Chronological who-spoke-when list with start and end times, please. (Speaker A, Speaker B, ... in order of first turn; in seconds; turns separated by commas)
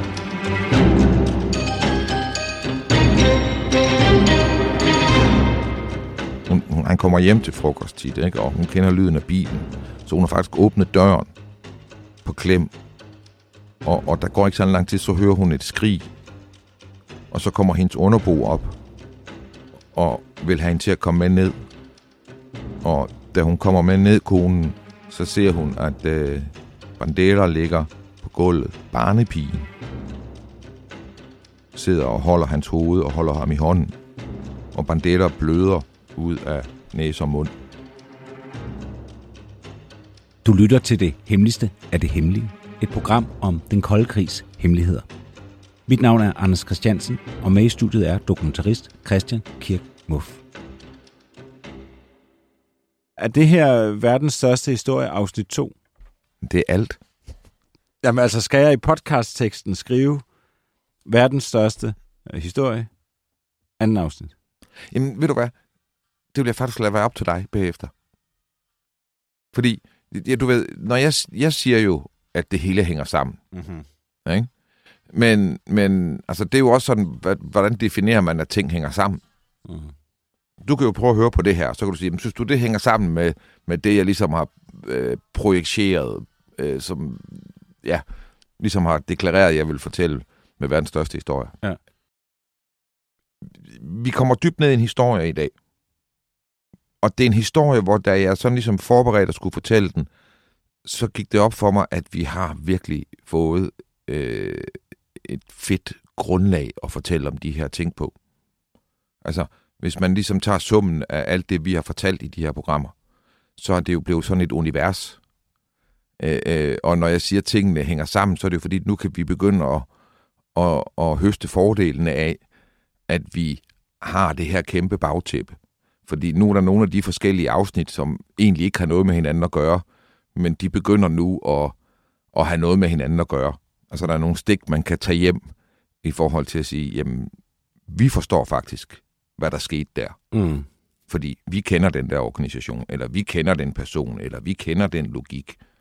Speaker A: 6.5-11.3, Speaker A: 12.2-12.7, Speaker A: 13.8-16.1, Speaker A: 17.3-18.8, Speaker A: 19.9-21.6, Speaker A: 22.8-29.7, Speaker A: 31.7-34.0, Speaker A: 34.7-37.5, Speaker B: 40.5-45.1, Speaker B: 45.9-50.4, Speaker B: 53.2-55.7, Speaker A: 56.4-57.0, Speaker B: 58.0-60.2, Speaker B: 61.0-62.9, Speaker B: 63.8-64.3, Speaker A: 64.9-65.5, Speaker A: 66.3-67.9, Speaker A: 69.5-73.4, Speaker B: 73.5-73.9, Speaker A: 75.1-79.2, Speaker B: 79.7-79.9, Speaker A: 80.6-88.0, Speaker A: 88.6-91.6, Speaker A: 93.5-95.5, Speaker A: 97.0-100.1, Speaker A: 100.8-108.1, Speaker A: 109.2-112.9, Speaker A: 113.6-115.2, Speaker A: 116.2-119.9, Speaker A: 120.5-122.4, Speaker A: 123.1-129.8, Speaker A: 130.4-131.8, Speaker A: 132.3-135.4, Speaker A: 136.0-137.3, Speaker A: 137.9-140.2, Speaker B: 140.3-140.7, Speaker A: 141.1-145.6